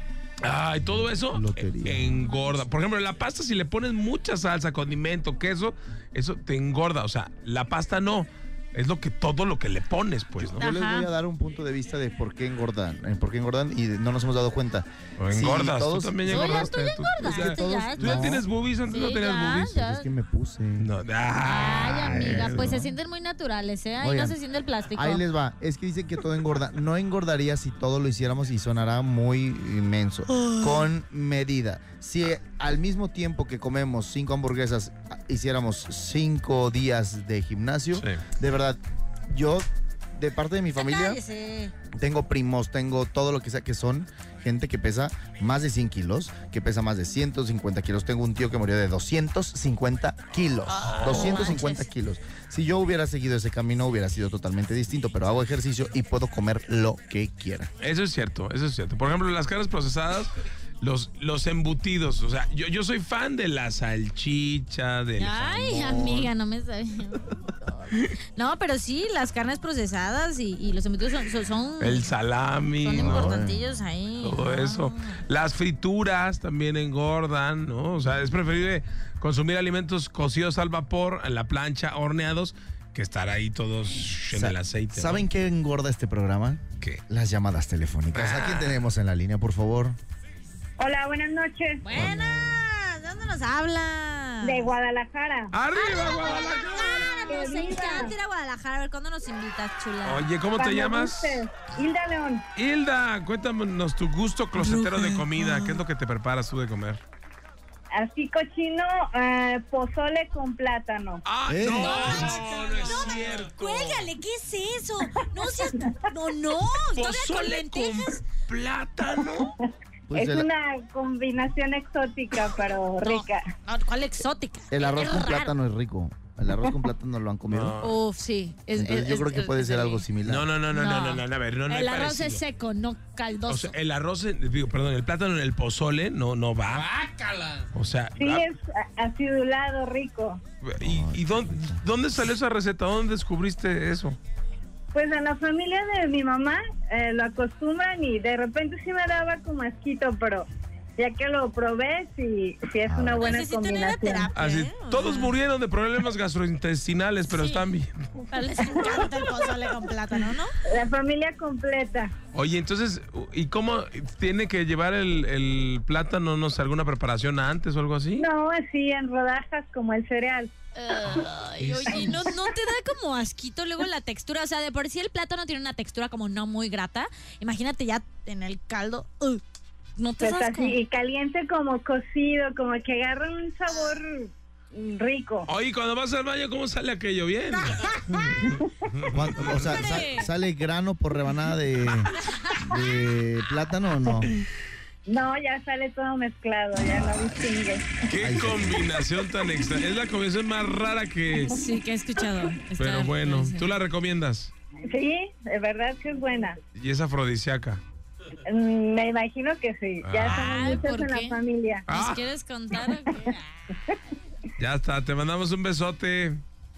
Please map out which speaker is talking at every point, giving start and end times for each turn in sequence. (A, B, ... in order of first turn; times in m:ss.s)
0:00.4-0:10.7 A
0:01.1-0:02.2 B
0:10.4-0:18.4 B
0:10.6-0:11.1 C
0:15.2-0:19.8 A
0:16.3-0:20.1 C
0:19.7-0:20.9 B
0:20.8-0:22.9 A
0:21.4-0:25.2 C
0:22.1-0:22.9 B
0:24.0-0:24.4 B
0:24.9-0:41.2 B
0:30.5-0:30.8 C
0:38.0-0:38.2 A
0:40.8-0:41.7 C
0:41.9-0:57.7 B
0:50.7-0:51.9 C
0:50.9-0:51.6 A
0:57.8-1:06.3 A
1:05.2-1:12.1 C
1:11.8-1:13.4 A
1:12.8-1:15.2 C
1:13.0-1:13.6 B
1:14.2-1:25.3 A
1:24.3-1:30.0 B
1:28.1-1:28.8 A
1:30.8-1:31.9 D
1:31.8-1:34.7 C
1:31.9-1:32.5 B
1:34.4-1:35.5 D
1:35.5-1:37.2 A
1:35.7-1:40.2 C
1:37.3-1:38.1 D
1:40.0-1:41.4 A
1:40.6-1:42.4 D
1:42.6-1:47.0 A
1:44.6-1:45.8 C
1:48.0-1:51.2 D
1:51.3-1:54.1 A
1:51.5-1:52.6 B
1:51.7-1:58.2 C
1:55.7-1:56.0 D
1:56.9-1:59.5 A
1:59.2-2:03.5 D
2:00.1-2:00.5 B
2:03.0-2:05.5 C
2:04.7-2:07.8 B
2:07.5-2:08.0 A
2:07.8-2:10.0 C
2:08.7-2:10.5 B
2:10.2-2:12.4 A
2:10.7-2:13.7 C
2:13.5-2:18.5 A
2:18.2-2:20.4 D
2:20.6-2:24.2 A
2:20.8-2:21.8 B
2:24.9-2:34.3 D
2:32.9-2:33.3 B
2:33.2-2:35.4 C
2:34.3-2:38.3 A
2:37.3-2:37.6 C
2:38.3-2:40.6 C
2:38.7-2:39.3 D
2:40.7-2:42.2 D
2:42.3-2:48.3 A
2:48.2-2:50.5 D
2:50.8-2:59.4 C
2:51.9-2:52.5 D
3:00.0-3:00.8 C
3:00.2-3:05.5 D
3:05.5-3:09.5 A
3:07.5-3:08.5 C
3:09.1-3:14.3 B
3:09.7-3:10.3 C
3:12.2-3:12.6 C
3:15.0-3:17.9 D
3:16.9-3:17.3 B
3:18.0-3:21.6 A
3:18.2-3:18.9 B
3:21.4-3:23.7 C
3:22.8-3:24.5 A
3:24.9-3:26.6 D
3:26.8-3:27.8 A
3:28.5-3:31.8 D
3:30.0-3:30.9 A
3:30.2-3:33.6 C
3:31.9-3:32.3 A
3:32.8-3:33.4 D
3:34.6-3:36.4 A